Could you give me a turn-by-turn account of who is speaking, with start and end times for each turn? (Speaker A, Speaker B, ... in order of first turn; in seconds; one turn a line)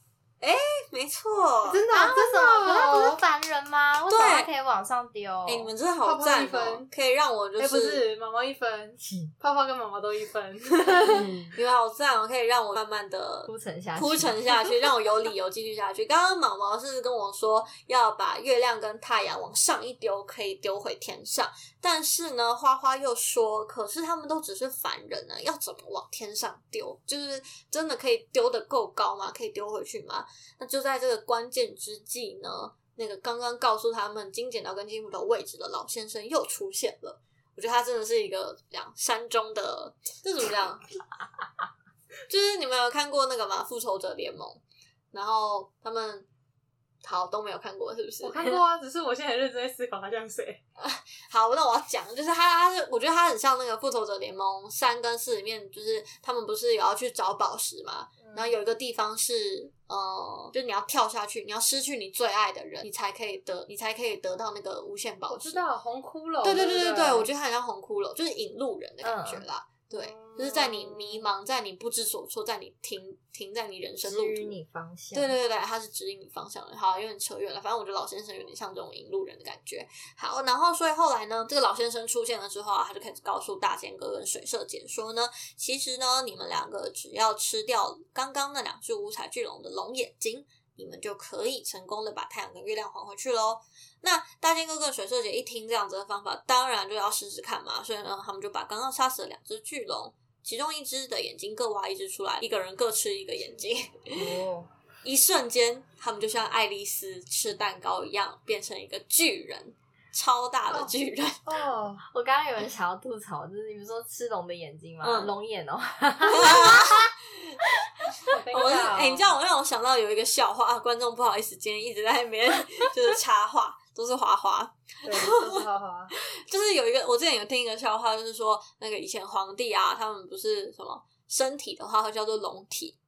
Speaker A: 0.4-1.8
Speaker B: 1.7-3.2
Speaker C: 1.9-5.7
Speaker A: 4.1-4.5
Speaker A: 5.5-8.1
Speaker B: 6.0-6.9
Speaker B: 7.6-11.4
Speaker C: 9.0-9.3
Speaker C: 11.0-11.5
Speaker A: 11.5-40.9
Speaker C: 13.5-14.7
Speaker A: 42.3-46.3
Speaker A: 47.0-48.5
Speaker B: 48.2-50.6
Speaker A: 50.8-65.6
Speaker B: 58.2-58.5
Speaker B: 65.3-67.3
Speaker A: 66.4-74.5
Speaker C: 69.0-69.5
Speaker B: 69.9-71.2
Speaker C: 74.0-75.3
Speaker A: 75.1-104.3
Speaker C: 104.2-104.7
Speaker A: 105.0-111.4
Speaker B: 111.5-112.0
Speaker C: 112.1-117.1
Speaker A: 115.0-115.3
Speaker A: 116.3-117.6
Speaker B: 118.3-119.3
Speaker A: 118.5-125.6
Speaker B: 125.0-126.1
Speaker A: 126.2-133.0